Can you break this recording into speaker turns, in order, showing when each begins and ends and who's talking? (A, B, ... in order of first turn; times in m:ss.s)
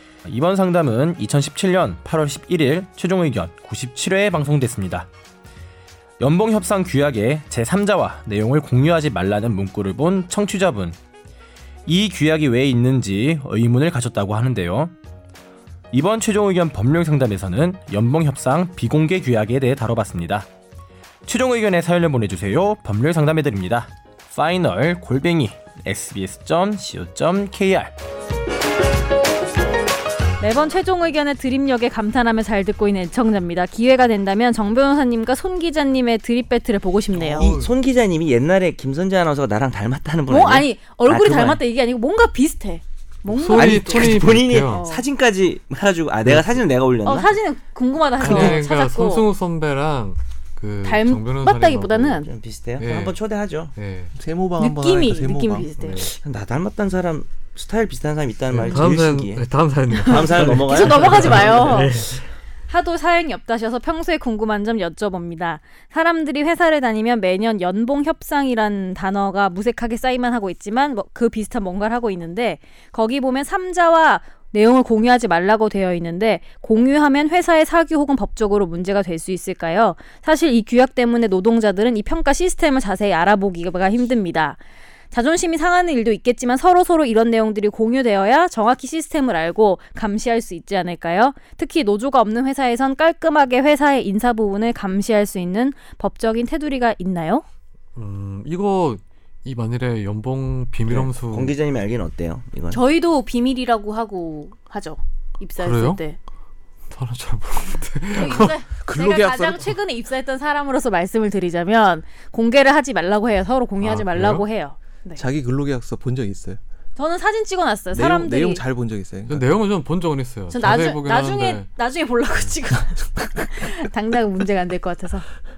0:00.2-0:05.1 A
0:06.2-0:11.0 A
0:11.8-0:14.9 A
0:15.9-0:20.5 A
0:21.2-0:27.9 A
0:30.4-0:37.6 B
0:37.1-0:37.7 C
0:37.4-0:41.6 D
0:40.3-0:45.0 B
0:43.3-0:44.8 E
0:43.5-0:47.3 D
0:46.2-0:46.5 E
0:47.0-0:49.3 B
0:48.2-0:52.2 E
0:48.2-0:48.6 D
0:50.8-0:52.3 B
0:52.2-0:53.7 D
0:52.8-0:54.1 E
0:54.1-0:55.7 C
0:54.6-0:56.0 B
0:55.8-0:56.1 E
0:55.9-0:59.5 D
0:58.5-1:02.2 E
1:00.0-1:01.8 D
1:00.0-1:02.0 B
1:02.7-1:37.4 B
1:38.0-1:41.6 E
1:40.9-1:42.8 D
1:42.7-1:46.2 B
1:45.6-1:46.0 E
1:46.9-1:48.5 E
1:48.1-1:55.2 B
1:48.8-1:49.7 C
1:53.8-1:54.4 E
1:55.2-1:56.6 C
1:57.0-1:58.6 B
1:57.9-1:59.5 C
1:59.3-2:01.7 E
2:00.5-2:05.3 B